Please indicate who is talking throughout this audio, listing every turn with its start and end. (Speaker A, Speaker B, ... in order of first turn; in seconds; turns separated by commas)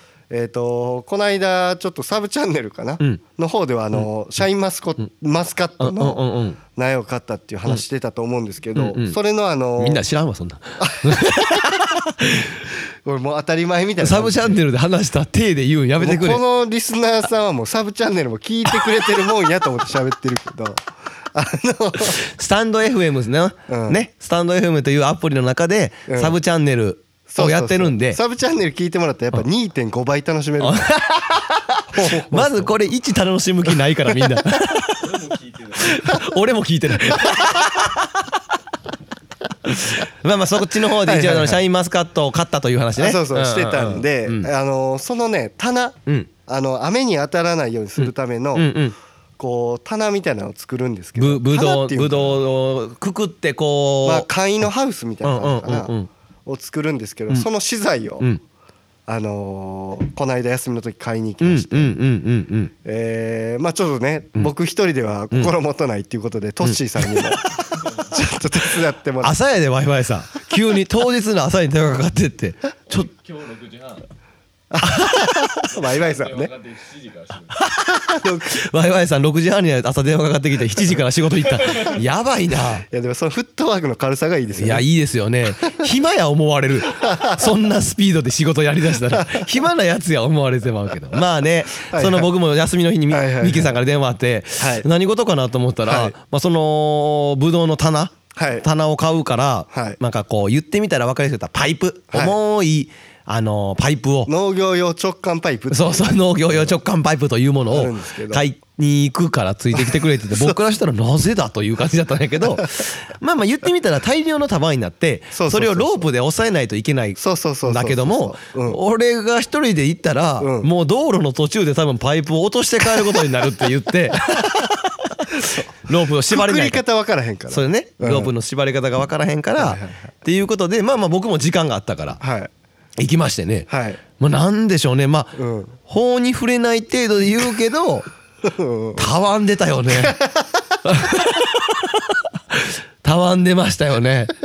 Speaker A: 0.3-10.0, Speaker B: 5.8-6.6, Speaker B: 8.7-9.2, Speaker B: 9.8-12.6, Speaker A: 10.8-11.8, Speaker A: 13.0-14.6, Speaker B: 14.0-16.4, Speaker A: 16.0-22.2, Speaker B: 22.1-28.2, Speaker A: 23.7-24.0, Speaker A: 26.1-26.3, Speaker A: 27.3-30.9, Speaker B: 30.6-35.1, Speaker A: 31.9-32.7, Speaker C: 35.0-36.3, Speaker B: 35.8-38.4, Speaker C: 37.2-37.5, Speaker B: 39.6-44.5, Speaker A: 41.0-41.6, Speaker A: 43.0-48.7, Speaker B: 48.0-49.0, Speaker A: 49.4-52.4, Speaker B: 51.2-54.3, Speaker A: 54.0-55.9, Speaker B: 55.2-56.1, Speaker A: 56.5-58.3, Speaker A: 59.1-61.9, Speaker B: 61.4-62.7, Speaker A: 62.8-69.3, Speaker B: 66.6-67.4, Speaker C: 67.8-68.1, Speaker B: 69.2-73.1, Speaker C: 72.9-74.1, Speaker A: 74.7-76.5, Speaker B: 74.8-75.3, Speaker C: 75.7-77.6, Speaker A: 78.0-78.6, Speaker B: 78.5-82.8, Speaker C: 81.5-82.0, Speaker A: 82.9-84.8, Speaker B: 84.5-104.3, Speaker A: 87.0-87.5, Speaker A: 89.1-89.5, Speaker A: 91.9-92.3, Speaker A: 93.1-93.7, Speaker A: 94.6-94.9, Speaker A: 95.8-96.1, Speaker A: 98.3-98.6, Speaker A: 99.7-100.0, Speaker A: 104.3-106.7, Speaker B: 105.7-126.8, Speaker A: 107.7-108.4, Speaker A: 109.7-110.6, Speaker A: 115.3-116.1, Speaker A: 117.2-118.8, Speaker A: 120.4-120.7, Speaker A: 125.3-125.7, Speaker A: 126.3-128.3, Speaker B: 127.5-132.2, Speaker A: 129.6-130.1, Speaker A: 132.2-132.5, Speaker B: 133.0-138.1, Speaker A: 133.7-134.0, Speaker A: 135.3-135.8, Speaker A: 138.4-139.1, Speaker B: 139.0-140.2, Speaker A: 139.9-141.1, Speaker B: 140.8-144.3